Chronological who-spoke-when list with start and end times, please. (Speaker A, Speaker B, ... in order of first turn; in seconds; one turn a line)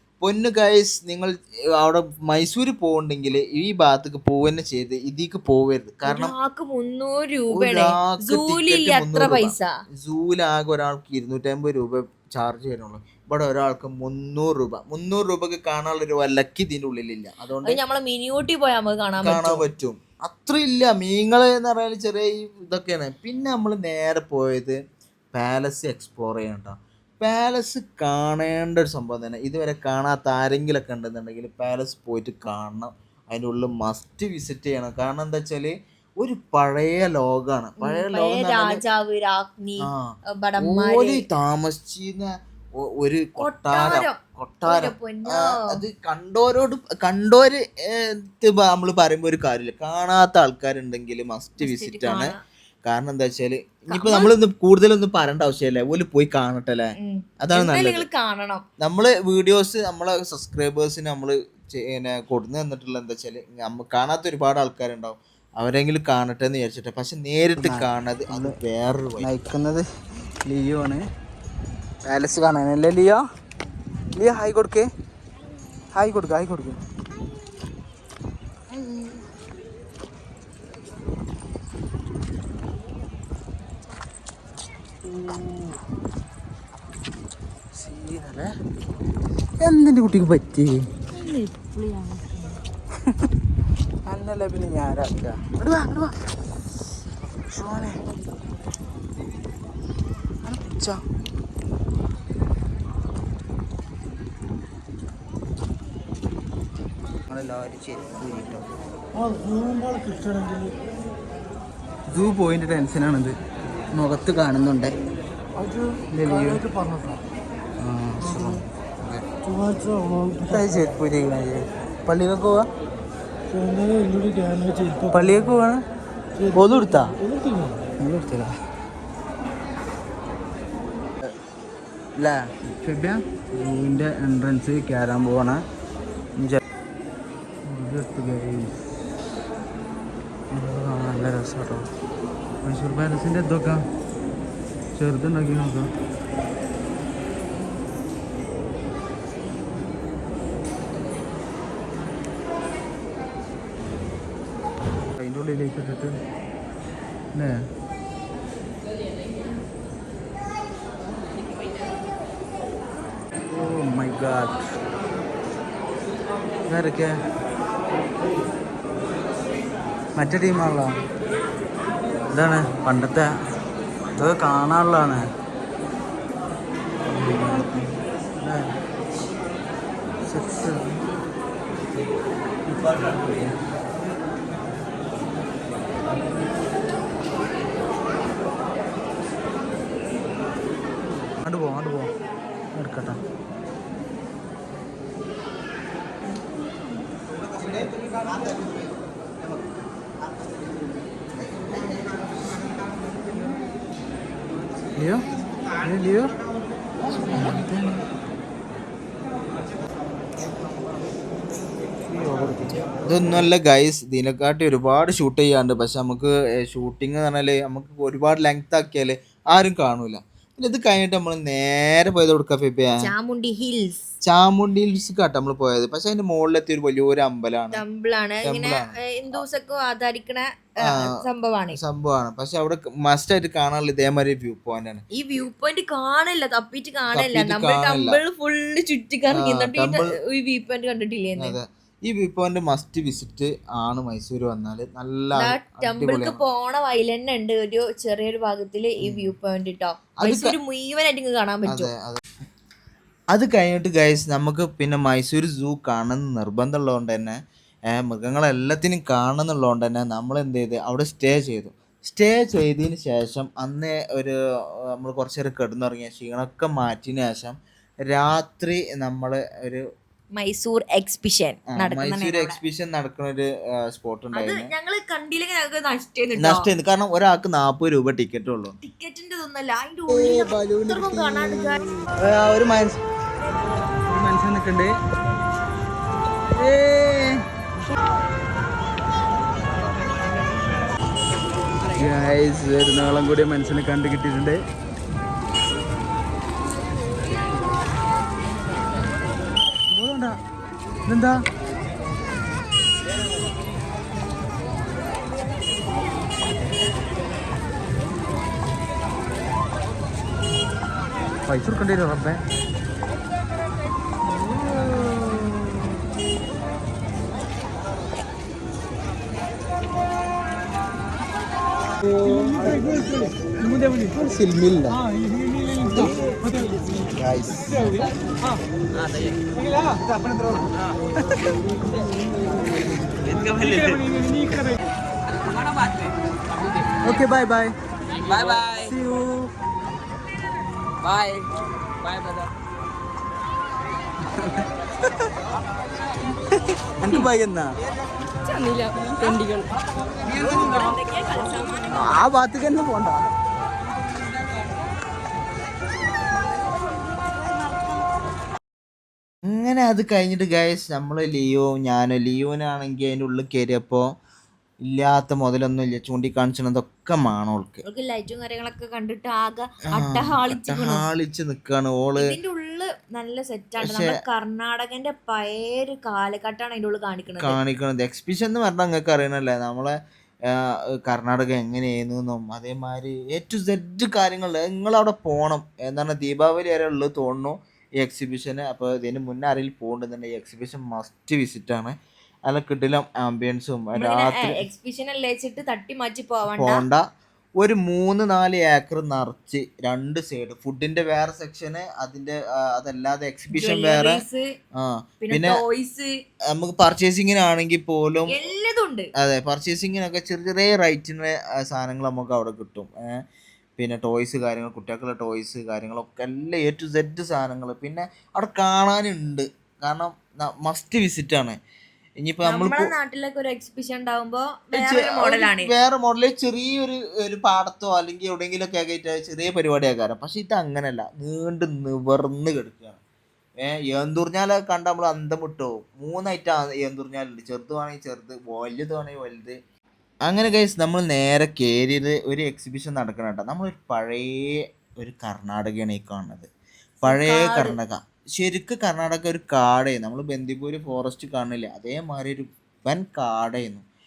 Speaker A: 0.2-6.3
Speaker B: 6.0-9.7
Speaker A: 7.5-17.8
Speaker B: 17.6-19.6
Speaker A: 19.2-24.8
Speaker A: 25.3-38.8
Speaker B: 37.8-41.2
Speaker A: 39.9-52.3
Speaker B: 43.4-45.6
Speaker B: 51.6-52.4
Speaker A: 52.8-58.0
Speaker B: 53.9-54.3
Speaker B: 57.0-58.6
Speaker A: 58.8-69.3
Speaker C: 67.6-68.5
Speaker C: 69.2-69.8
Speaker C: 70.4-71.0
Speaker C: 72.0-73.2
Speaker C: 74.1-74.9
Speaker C: 75.9-76.8
Speaker C: 78.7-79.2
Speaker C: 85.0-85.7
Speaker C: 87.8-88.5
Speaker C: 89.6-90.8
Speaker B: 91.5-91.9
Speaker C: 94.0-96.1
Speaker C: 97.5-98.0
Speaker C: 100.4-101.0
Speaker C: 107.3-108.6
Speaker C: 112.1-113.3
Speaker C: 113.9-115.0
Speaker C: 116.1-116.7
Speaker C: 117.8-119.2
Speaker A: 118.2-118.6
Speaker C: 120.4-122.7
Speaker C: 125.1-125.8
Speaker C: 126.5-127.1
Speaker C: 128.0-128.5
Speaker C: 132.2-135.6
Speaker C: 137.7-138.7
Speaker C: 140.5-141.9
Speaker C: 142.6-143.8
Speaker C: 144.9-145.9
Speaker C: 155.2-156.2
Speaker C: 157.3-157.6
Speaker C: 163.5-164.6
Speaker C: 166.7-167.2
Speaker C: 170.2-171.0
Speaker C: 172.3-173.3
Speaker C: 174.2-175.2
Speaker C: 177.1-178.7
Speaker C: 180.3-181.0
Speaker C: 182.7-183.5
Speaker C: 191.4-192.1
Speaker C: 192.7-193.2
Speaker C: 205.0-205.3
Speaker C: 205.8-206.3
Speaker C: 207.3-208.0
Speaker C: 212.1-212.8
Speaker A: 213.1-223.1
Speaker B: 223.0-224.1
Speaker A: 224.2-227.8
Speaker B: 227.7-231.8
Speaker A: 228.4-229.4
Speaker A: 230.9-231.1
Speaker A: 231.7-235.0
Speaker B: 235.1-241.6
Speaker A: 237.1-238.2
Speaker A: 239.3-240.1
Speaker A: 241.4-246.4
Speaker B: 245.3-251.9
Speaker A: 249.0-249.3
Speaker A: 250.2-250.6
Speaker A: 251.7-252.2
Speaker A: 253.3-257.4
Speaker A: 257.9-264.4
Speaker A: 264.9-267.6
Speaker A: 268.1-269.8
Speaker B: 270.4-272.6
Speaker A: 271.7-274.7
Speaker B: 274.3-276.7
Speaker A: 276.4-278.7
Speaker B: 278.8-281.8
Speaker C: 280.1-281.4
Speaker C: 282.2-283.0
Speaker C: 284.1-284.9
Speaker C: 286.6-287.3
Speaker C: 291.9-294.6
Speaker C: 299.9-300.4
Speaker C: 301.1-301.4
Speaker C: 311.5-312.4
Speaker C: 322.4-322.8
Speaker C: 324.1-324.9
Speaker A: 324.4-324.8
Speaker C: 325.9-326.5
Speaker A: 327.2-327.6
Speaker C: 329.0-329.4
Speaker C: 330.1-330.7
Speaker C: 333.3-334.2
Speaker C: 337.0-339.5
Speaker C: 341.0-341.5
Speaker C: 342.0-342.5
Speaker C: 344.4-344.6
Speaker C: 347.0-347.7
Speaker C: 350.2-350.9
Speaker B: 350.5-352.1
Speaker C: 351.9-353.2
Speaker A: 359.5-364.1
Speaker A: 364.9-367.8
Speaker B: 367.9-371.0
Speaker A: 369.9-372.2
Speaker B: 372.2-377.6
Speaker A: 373.8-374.1
Speaker A: 377.4-379.9
Speaker A: 380.5-391.9
Speaker A: 392.5-394.6
Speaker B: 394.0-396.8
Speaker A: 396.5-397.0
Speaker A: 397.6-404.2
Speaker B: 403.5-404.4
Speaker A: 404.8-405.6
Speaker B: 405.2-406.1
Speaker A: 406.5-408.4
Speaker B: 408.3-409.1
Speaker A: 409.2-413.2
Speaker A: 413.8-421.6
Speaker A: 422.2-422.9
Speaker B: 422.4-425.7
Speaker A: 424.7-433.0
Speaker A: 433.6-439.6
Speaker A: 440.2-446.5
Speaker A: 447.0-453.8
Speaker B: 447.1-447.8